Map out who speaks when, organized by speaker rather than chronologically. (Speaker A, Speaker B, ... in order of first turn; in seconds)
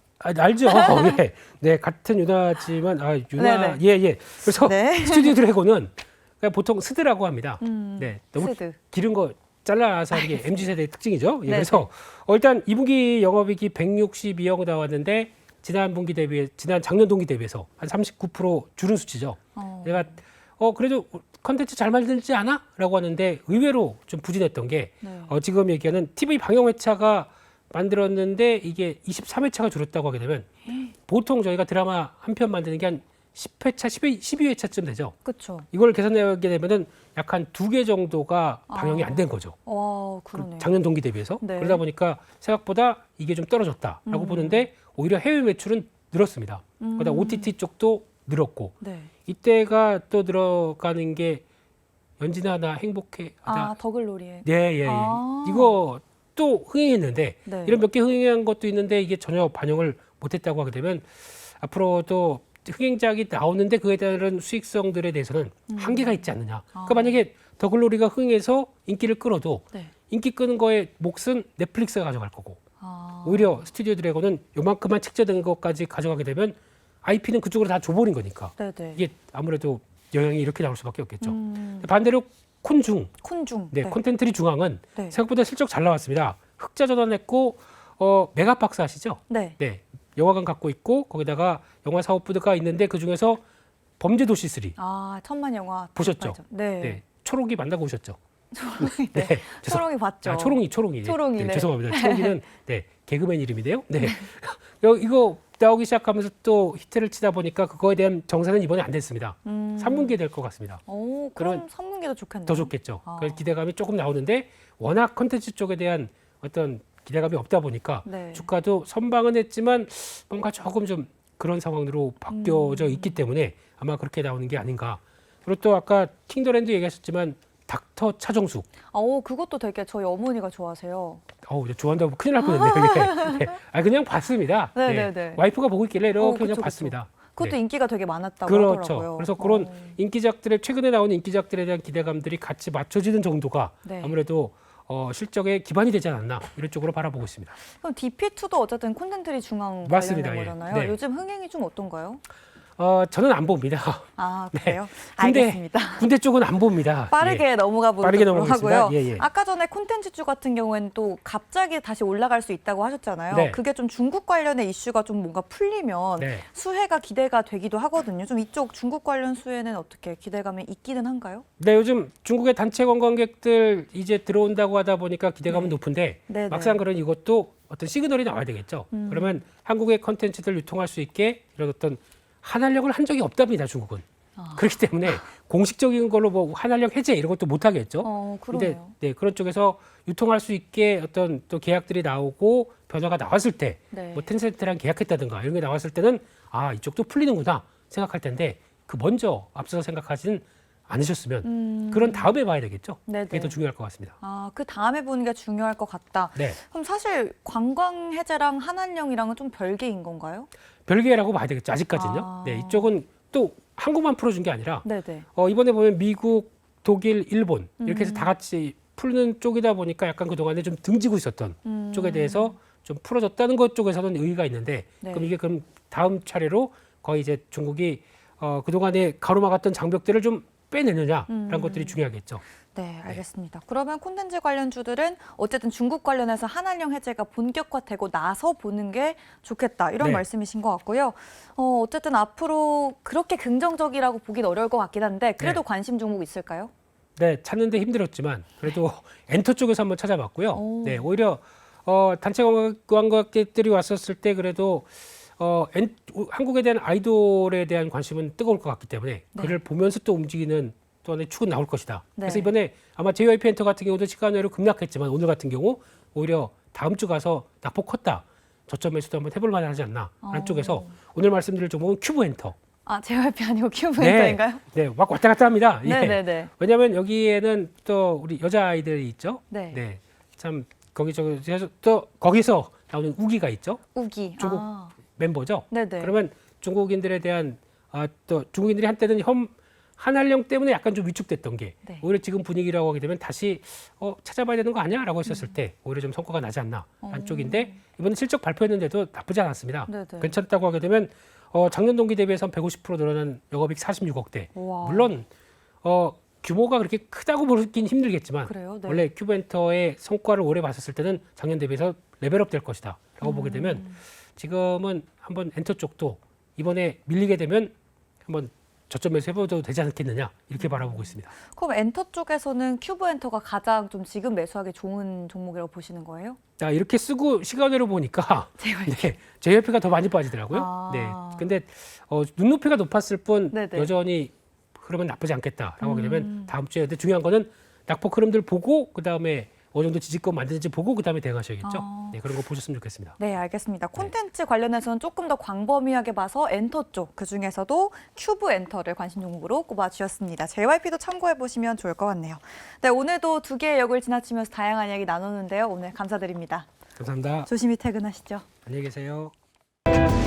Speaker A: 0.2-30.5, 31.1-35.1, 35.7-39.6, 40.3-48.8, 49.3-51.4, 52.2-53.7, 54.4-72.6, 73.2-83.1, 83.7-93.4, 94.0-94.8, 96.0-98.2, 98.8-110.8, 111.4-111.6, 112.5-128.7, 131.4-137.6, 138.4-147.6, 149.8-151.0, 152.8-157.4, 158.0-159.2, 163.3-163.6, 166.2-166.4, 171.6-184.0, 184.6-204.2, 210.9-232.4, 240.0-240.2, 247.2-272.6, 274.0-283.8, 284.4-284.6, 285.2-305.3, 305.8-313.8, 314.4-317.7, 318.3-321.3, 326.6-343.2, 357.0-357.5, 358.7-359.3
Speaker B: 0.7-1.2, 3.4-3.8, 4.5-5.4, 7.6-8.8, 10.1-10.7, 11.5-11.9, 19.6-20.2, 25.0-25.3, 30.7-30.9, 35.2-35.7, 38.7-40.7, 41.4-41.8, 44.1-44.6, 46.8-47.5, 48.8-49.1, 53.5-55.8, 57.5-57.8, 65.7-67.2, 72.8-73.7, 78.6-79.0, 81.2-81.9, 83.2-84.0, 89.3-89.6, 94.8-97.0, 98.5-102.4, 104.0-104.3, 109.4-110.2, 110.9-113.4, 118.0-118.5, 122.3-123.2, 128.9-131.2, 132.4-133.5, 134.8-135.4, 136.2-140.0, 143.8-144.2, 147.7-152.2, 154.2-156.1, 157.1-171.4, 175.5-176.8, 178.9-179.4, 184.4-185.2, 188.0-188.9, 193.9-194.3, 201.4-202.4, 203.1-203.6, 204.2-210.5, 211.9-212.9, 214.8-215.2, 217.8-218.3, 221.6-222.6, 225.0-225.3, 231.3-232.0, 232.7-246.7, 250.5-251.1, 259.4-259.6, 262.2-262.5, 270.2-270.9, 272.9-274.6, 275.8-276.5, 279.5-279.8, 283.9-284.9, 285.7-286.1, 295.2-295.5, 297.0-297.8, 299.9-300.4, 304.5-305.1, 308.4-309.1, 313.2-314.0, 320.6-326.4, 328.6-329.2, 330.5-331.5, 333.5-333.9, 335.8-336.5, 341.6-342.2, 343.2-356.7, 357.4-358.5